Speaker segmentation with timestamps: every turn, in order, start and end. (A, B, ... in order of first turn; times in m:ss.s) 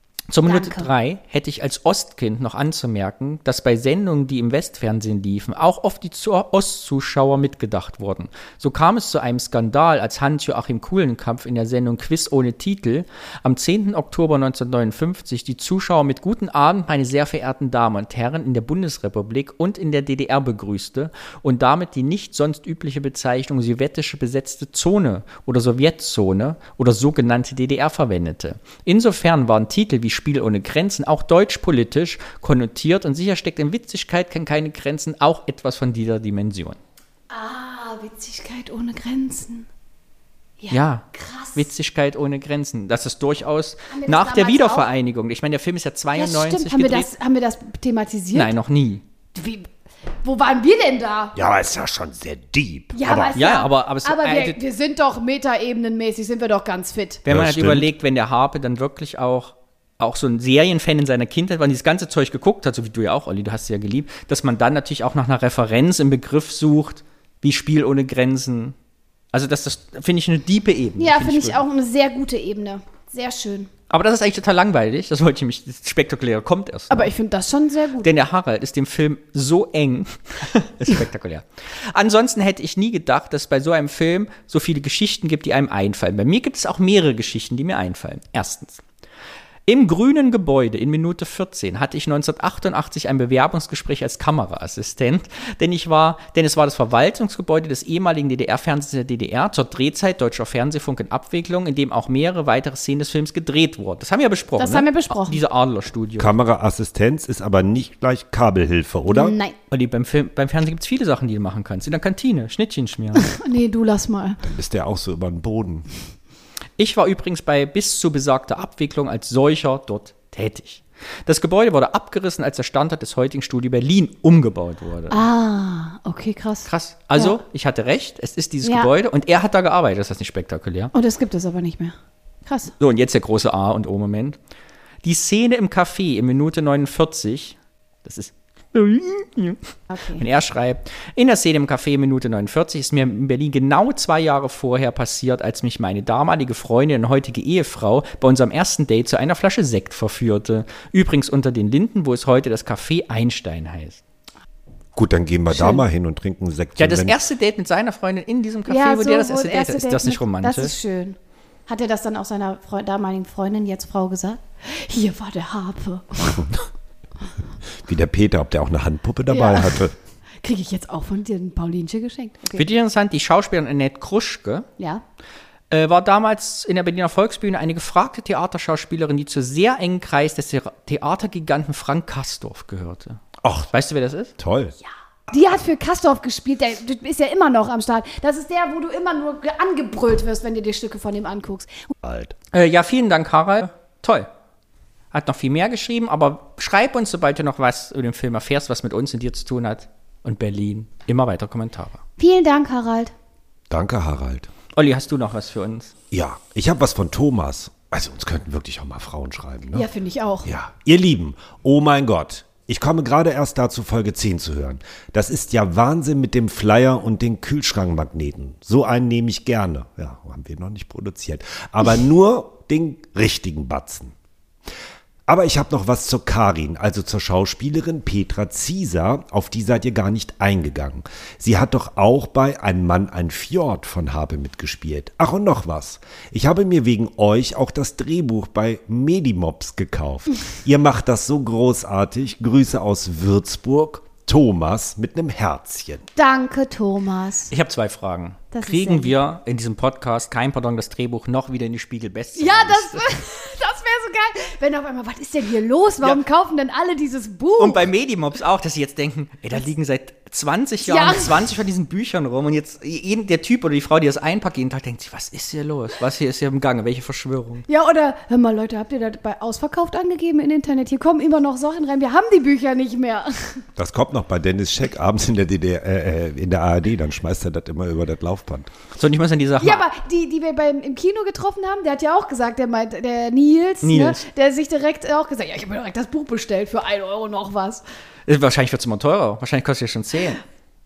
0:00.3-0:36.8 A
0:00.4-0:00.9 B
0:37.3-0:39.7 B
0:40.6-0:41.7 B
0:40.7-0:47.1 A
0:43.9-0:44.9 B
0:46.2-0:48.5 B
0:48.3-0:49.0 A
0:49.3-0:49.7 B
0:50.2-0:51.4 B
0:51.3-0:53.4 C
0:52.9-0:57.2 B
0:53.3-0:54.6 A
0:57.2-1:08.8 A
0:57.3-0:57.9 C
1:09.3-1:11.6 A
1:11.0-1:13.7 B
1:13.9-1:17.1 A
1:16.9-1:18.2 B
1:18.0-1:28.8 A
1:29.7-1:46.3 A
1:44.6-1:45.4 B
1:46.2-1:49.4 C
1:49.1-1:49.6 B
1:49.7-1:53.3 A
1:53.2-1:54.4 B
1:54.4-1:55.9 C
1:56.8-2:05.2 A
2:05.1-2:07.4 B
2:06.7-2:10.9 A
2:08.6-2:08.9 B
2:10.9-2:12.0 B
2:12.5-2:12.7 B
2:12.8-2:14.4 A
2:15.0-2:19.6 A
2:19.9-2:20.2 B
2:20.2-2:34.0 A
2:35.0-2:37.2 C
2:35.5-2:35.8 B
2:36.8-2:40.7 A
2:38.7-2:46.5 B
2:47.8-2:50.0 C
2:49.3-2:49.9 B
2:50.4-2:52.7 B
2:52.6-2:54.7 A
2:55.7-3:04.3 A
3:03.4-3:03.7 C
3:04.4-3:04.8 C
3:04.8-3:11.9 B
3:12.0-3:12.4 C
3:12.5-3:14.3 A
3:15.1-3:22.0 A
3:22.2-3:23.1 B
3:23.7-3:24.5 C
3:24.8-3:25.9 A
3:26.1-3:29.9 C
3:29.7-3:30.5 B
3:30.4-3:44.2 C
3:45.3-4:06.0 C
4:06.2-4:07.5 B
4:07.5-4:13.0 A
4:08.5-4:09.2 B
4:12.4-4:17.9 B
4:17.6-4:27.6 A
4:20.8-4:21.4 B
4:27.7-4:33.6 B
4:33.8-4:38.7 C
4:39.0-4:39.8 A
4:39.6-4:47.8 B
4:43.8-4:44.2 A
4:48.3-4:50.4 A